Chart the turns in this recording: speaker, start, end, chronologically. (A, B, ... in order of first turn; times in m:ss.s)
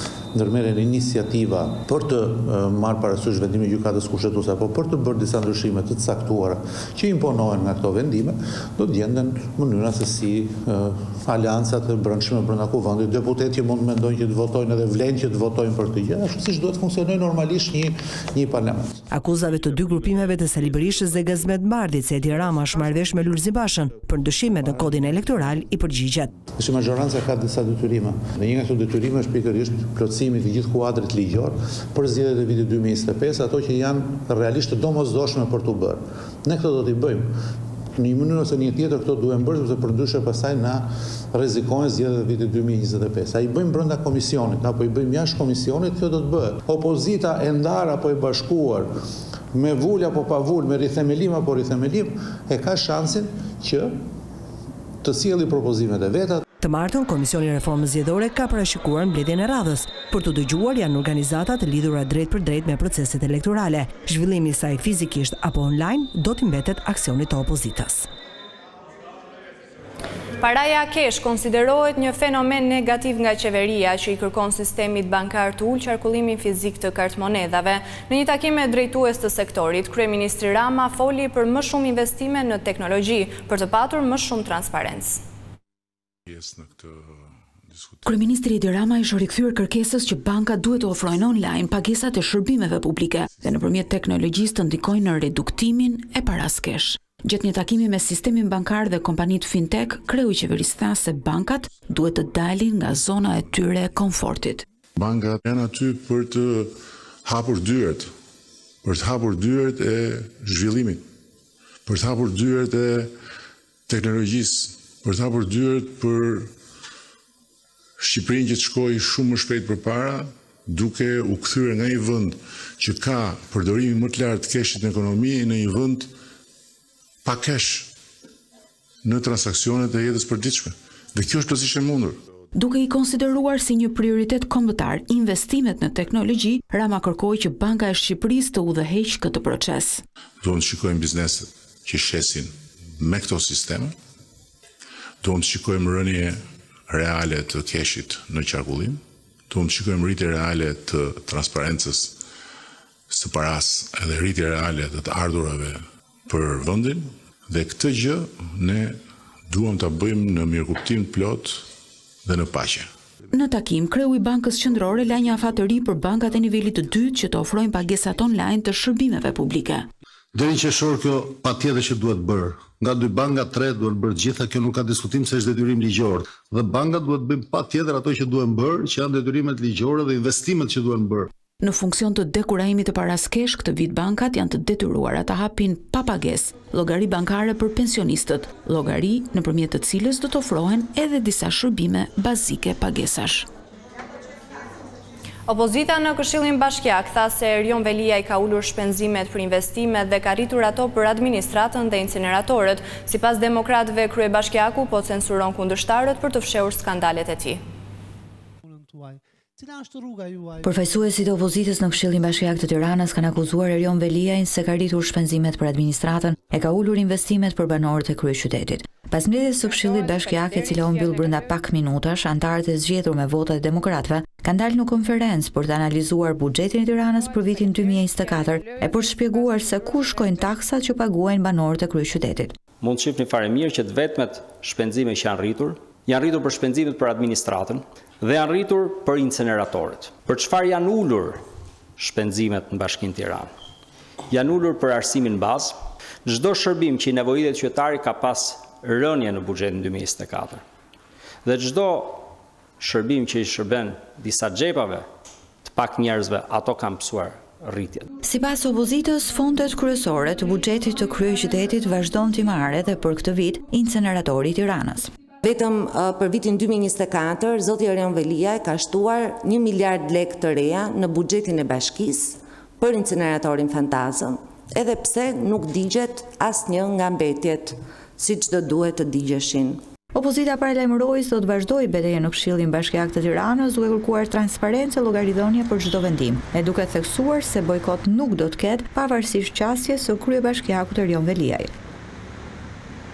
0:00.3-0:18.9 A
0:19.1-0:26.3 B
0:26.6-0:37.3 A
0:38.0-0:48.9 A
0:49.5-0:53.9 A
0:55.0-0:56.4 A
0:56.6-1:08.1 B
1:10.4-1:25.2 C
1:26.3-1:27.1 D
1:27.7-1:28.2 D
1:28.0-1:44.6 E
1:45.0-1:46.7 D
1:47.2-1:48.1 D
1:48.8-1:51.0 D
1:51.8-1:53.1 D
1:53.9-1:56.5 D
1:58.0-2:06.1 D
2:07.2-2:07.9 D
2:09.0-2:12.2 D
2:12.5-2:20.0 E
2:20.4-2:23.9 D
2:25.2-2:26.4 D
2:26.9-2:32.2 D
2:33.1-2:41.6 D
2:42.2-2:42.9 D
2:43.3-2:49.9 E
2:50.3-3:01.3 F
3:01.6-3:13.5 E
3:15.5-3:27.6 C
3:30.6-3:52.5 G
3:52.8-4:01.4 H
4:02.0-4:03.5 H
4:04.3-4:10.6 H
4:11.4-4:12.3 H
4:12.8-4:15.0 H
4:15.7-4:18.0 H
4:18.2-4:25.1 G
4:25.4-4:39.8 I
4:40.1-4:51.7 G